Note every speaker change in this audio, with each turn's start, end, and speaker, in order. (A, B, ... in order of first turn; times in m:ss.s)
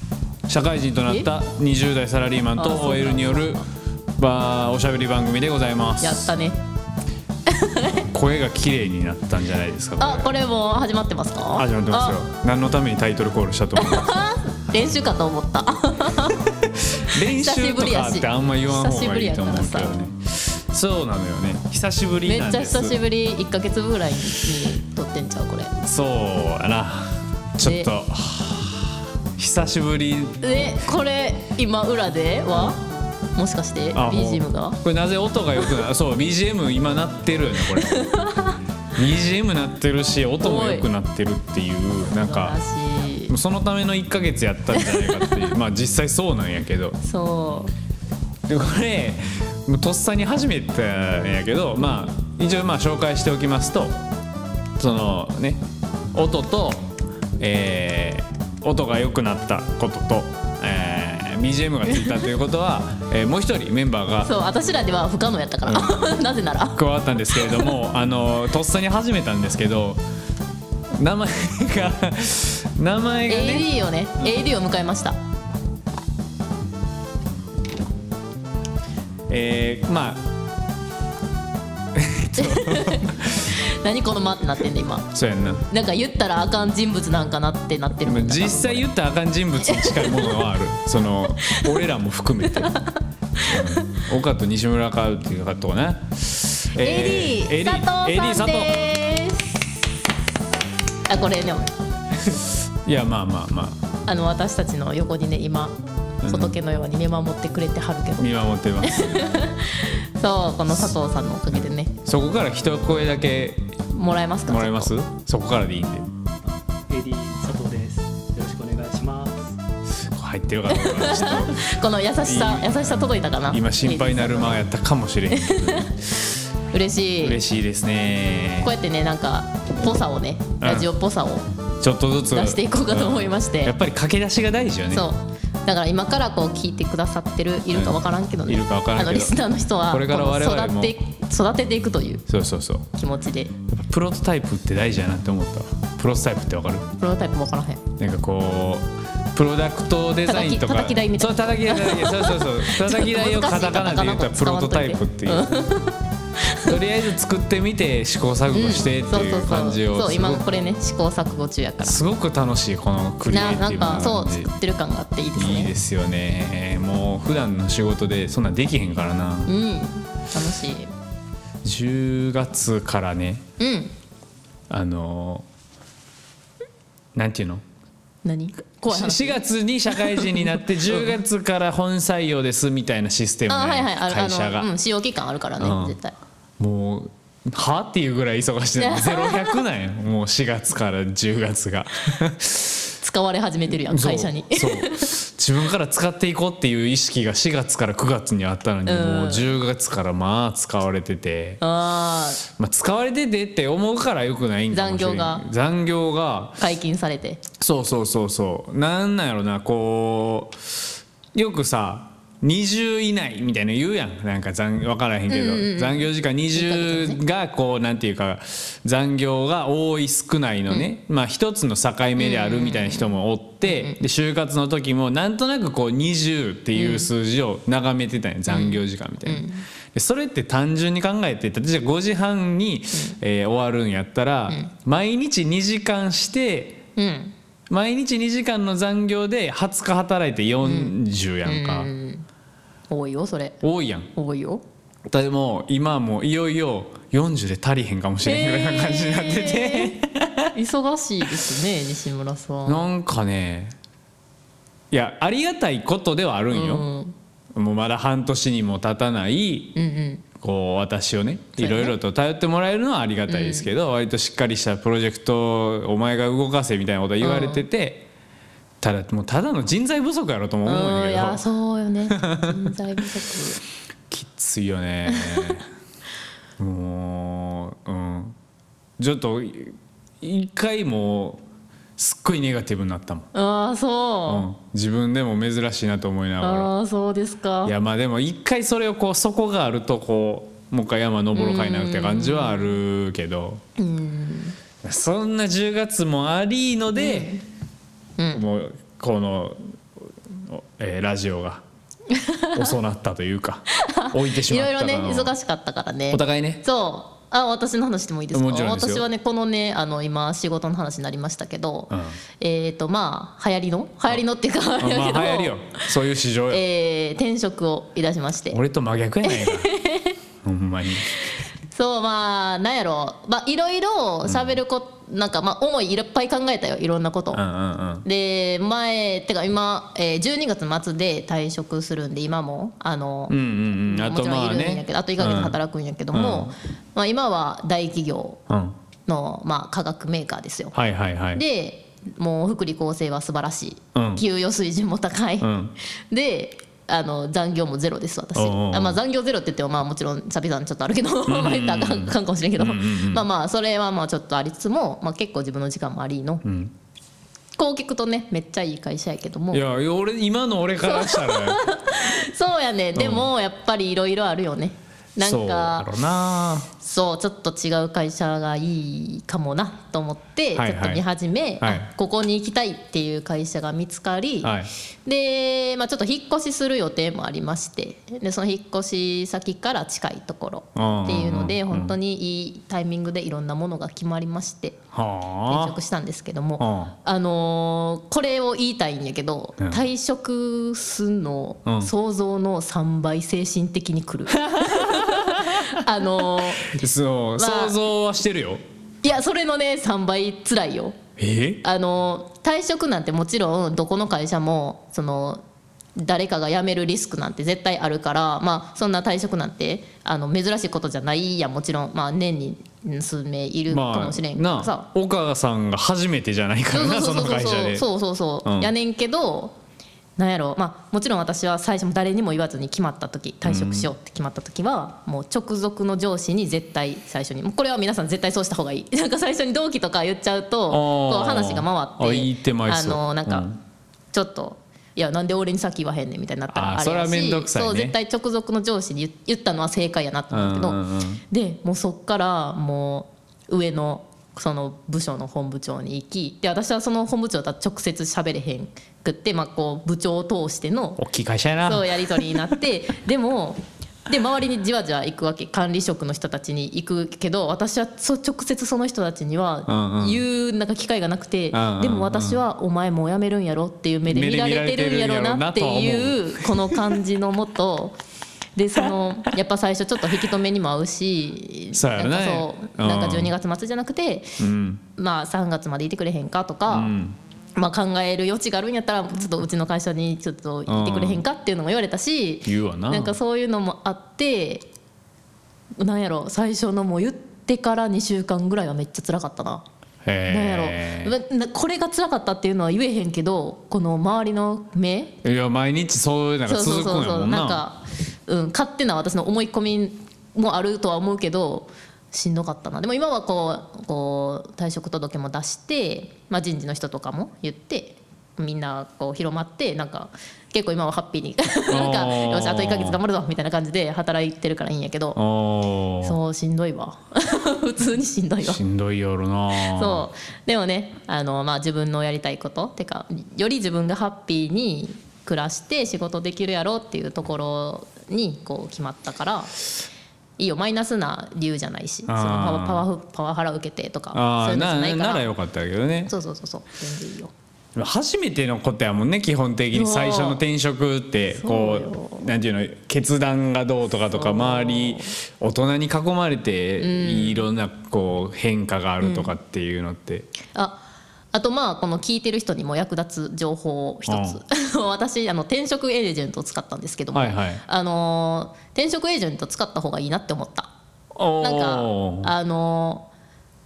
0:00.5-0:03.6 A
0:02.6-0:03.6 B
0:04.2-0:06.3 A
0:06.0-0:06.6 B
0:07.5-0:08.1 B
0:08.1-0:10.3 A
0:10.0-0:12.2 B
0:11.6-0:14.2 A
0:13.8-0:16.5 B
0:16.7-0:23.0 A
0:17.1-0:19.9 B
0:22.2-0:25.7 B
0:25.8-0:30.6 A
0:27.6-0:27.9 B
0:30.4-0:32.8 B
0:32.5-0:32.8 A
0:33.4-0:34.8 B
0:33.9-0:38.1 A
0:37.7-0:38.6 B
0:39.0-0:42.6 A
0:40.4-0:40.9 B
0:42.1-0:43.3 B
0:43.3-0:47.0 A
0:44.7-0:45.5 B
0:47.0-0:47.7 B
0:48.5-0:54.0 A
0:54.8-0:55.6 A
0:56.1-0:56.8 A
0:57.4-1:04.3 A
1:01.9-1:02.2 B
1:04.2-1:06.8 B
1:05.7-1:06.0 A
1:06.7-1:10.0 A
1:07.3-1:07.7 B
1:11.0-1:13.7 A
1:13.3-1:15.2 B
1:19.3-1:20.3 A
1:21.9-1:23.5 A
1:22.3-1:25.1 B
1:25.1-1:25.6 A
1:25.7-1:28.9 B
1:28.0-1:32.7 A
1:29.6-1:30.4 B
1:31.4-1:31.7 B
1:32.5-1:34.0 B
1:33.4-1:38.7 A
1:36.8-1:39.7 B
1:41.1-1:41.7 B
1:42.8-1:43.8 A
1:44.1-1:48.3 B
1:46.2-1:46.6 A
1:48.2-1:49.4 A
1:48.8-1:51.9 B
1:51.5-1:53.7 A
1:53.9-1:54.9 B
1:54.5-1:56.1 A
1:56.9-1:59.6 C
2:00.0-2:06.0 A
2:00.7-2:04.6 B
2:05.3-2:05.9 B
2:06.7-2:07.4 B
2:07.2-2:08.7 A
2:08.6-2:11.4 B
2:10.6-2:10.9 A
2:11.8-2:15.0 A
2:12.3-2:13.7 B
2:14.9-2:22.2 B
2:17.7-2:20.9 A
2:22.3-2:22.9 A
2:22.9-2:23.5 B
2:23.7-2:26.9 A
2:27.0-2:27.8 B
2:28.0-2:35.5 A
2:30.3-2:36.7 B
2:36.6-2:40.4 A
2:38.5-2:42.0 B
2:41.8-2:44.5 A
2:43.3-2:45.7 B
2:45.4-2:49.5 A
2:49.4-2:50.9 B
2:51.6-2:53.4 A
2:53.6-2:53.9 B
2:54.7-2:55.4 A
2:57.1-2:57.6 A
2:58.2-3:01.1 B
2:58.8-3:04.7 A
3:03.5-3:06.1 B
3:05.6-3:06.0 A
3:06.6-3:12.9 A
3:08.8-3:09.6 B
3:13.0-3:15.1 B
3:13.7-3:21.6 A
3:18.8-3:19.5 B
3:21.6-3:22.4 B
3:22.5-3:26.6 A
3:24.7-3:25.4 B
3:26.6-3:27.4 B
3:27.6-3:56.8 A
3:35.3-3:37.2 B
3:42.2-3:44.0 B
3:46.7-3:47.1 B
3:48.5-3:49.6 B
3:57.0-3:57.3 B
3:57.7-4:01.9 A
4:00.6-4:02.2 B
4:02.9-4:03.6 B
4:03.6-4:04.1 A
4:04.1-4:04.6 B
4:05.1-4:10.5 A
4:08.2-4:10.0 B
4:10.5-4:12.9 B
4:12.6-4:13.8 A
4:14.9-4:16.8 A
4:16.5-4:17.1 B
4:17.5-4:19.8 A
4:19.7-4:20.2 B
4:20.4-4:28.1 A
4:21.6-4:22.0 B
4:23.3-4:23.7 B
4:27.2-4:27.6 B
4:28.8-4:31.4 A
4:30.6-4:33.6 B
4:32.1-4:32.6 A
4:34.1-4:35.7 A
4:35.1-4:35.5 B
4:36.6-4:38.4 A
4:39.0-4:41.4 A
4:42.0-4:43.3 A
4:43.3-4:44.5 B
4:44.3-4:46.7 A
4:46.4-4:47.7 B
4:47.6-4:53.6 A
4:51.3-4:52.8 B
4:53.8-4:54.6 B
4:54.8-4:57.3 A
4:56.9-4:57.4 B
4:58.2-4:58.4 B
4:58.3-4:59.6 A
5:00.3-5:01.6 A
5:02.1-5:02.7 B
5:02.5-5:05.3 A
5:03.7-5:15.6 B
5:06.1-5:06.6 A
5:08.3-5:09.0 A
5:11.9-5:12.2 A
5:14.8-5:16.6 A
5:16.5-5:18.6 B
5:18.5-5:19.7 A
5:19.2-5:20.2 B
5:20.4-5:21.2 A
5:21.1-5:27.4 B
5:24.2-5:24.6 A
5:27.3-5:28.0 A
5:28.0-5:38.4 B
5:33.3-5:35.6 A
5:36.1-5:36.5 A
5:38.5-5:38.7 A
5:39.1-5:40.8 B
5:40.7-5:41.4 A
5:41.3-5:45.5 B
5:43.9-5:44.2 A
5:45.4-5:45.7 A
5:46.1-5:56.4 B
5:48.4-5:49.0 A
5:51.3-5:53.2 A
5:56.4-5:56.7 A
5:57.6-5:59.6 B
5:59.5-6:01.6 A
6:00.8-6:05.9 B
6:02.9-6:03.3 A
6:05.2-6:06.7 A
6:06.8-6:14.5 B
6:10.5-6:11.0 A
6:14.4-6:14.7 A
6:15.0-6:24.8 B
6:20.7-6:22.0 A
6:24.9-6:25.8 A
6:25.5-6:36.8 B
6:26.6-6:26.9 A
6:31.6-6:31.9 A
6:34.4-6:38.6 A
6:37.4-6:37.8 B
6:39.0-6:41.0 B
6:41.2-6:41.6 A
6:41.6-6:45.4 B
6:46.0-6:54.8 B
6:53.7-6:57.8 A
6:56.7-6:59.5 B
6:58.4-6:58.7 A
7:00.2-7:13.5 B
7:03.4-7:03.9 A
7:10.7-7:13.6 A
7:14.1-7:31.0 B
7:16.5-7:17.9 A
7:20.3-7:21.2 A
7:31.0-7:32.4 A
7:31.6-7:48.0 B
7:39.7-7:40.2 A
7:41.5-7:42.4 A
7:44.1-7:47.0 A
7:48.6-7:54.4 B
7:51.7-7:53.3 A
7:54.4-7:54.8 A
7:55.0-7:56.9 B
7:56.7-7:57.2 A
7:57.6-8:04.6 B
8:00.7-8:01.2 A
8:02.4-8:03.1 A
8:05.8-8:09.6 B
8:10.0-8:11.1 A
8:10.3-8:15.2 B
8:15.2-8:17.6 A
8:16.4-8:35.2 B
8:31.7-8:33.0 A
8:35.1-8:36.2 A
8:36.0-8:38.6 B
8:38.4-8:40.1 A
8:39.6-8:49.6 B
8:50.4-8:55.3 B
8:52.1-8:52.8 A
8:54.1-8:56.1 A
8:56.1-8:57.3 B
8:57.7-9:10.3 A
8:59.7-9:00.4 B
9:01.3-9:02.3 B
9:04.1-9:05.1 B
9:06.8-9:07.5 B
9:09.0-9:09.3 B
9:10.5-9:10.8 B
9:11.3-9:20.7 B
9:14.1-9:14.4 A
9:17.1-9:17.6 A
9:21.1-9:22.3 A
9:21.4-9:23.1 B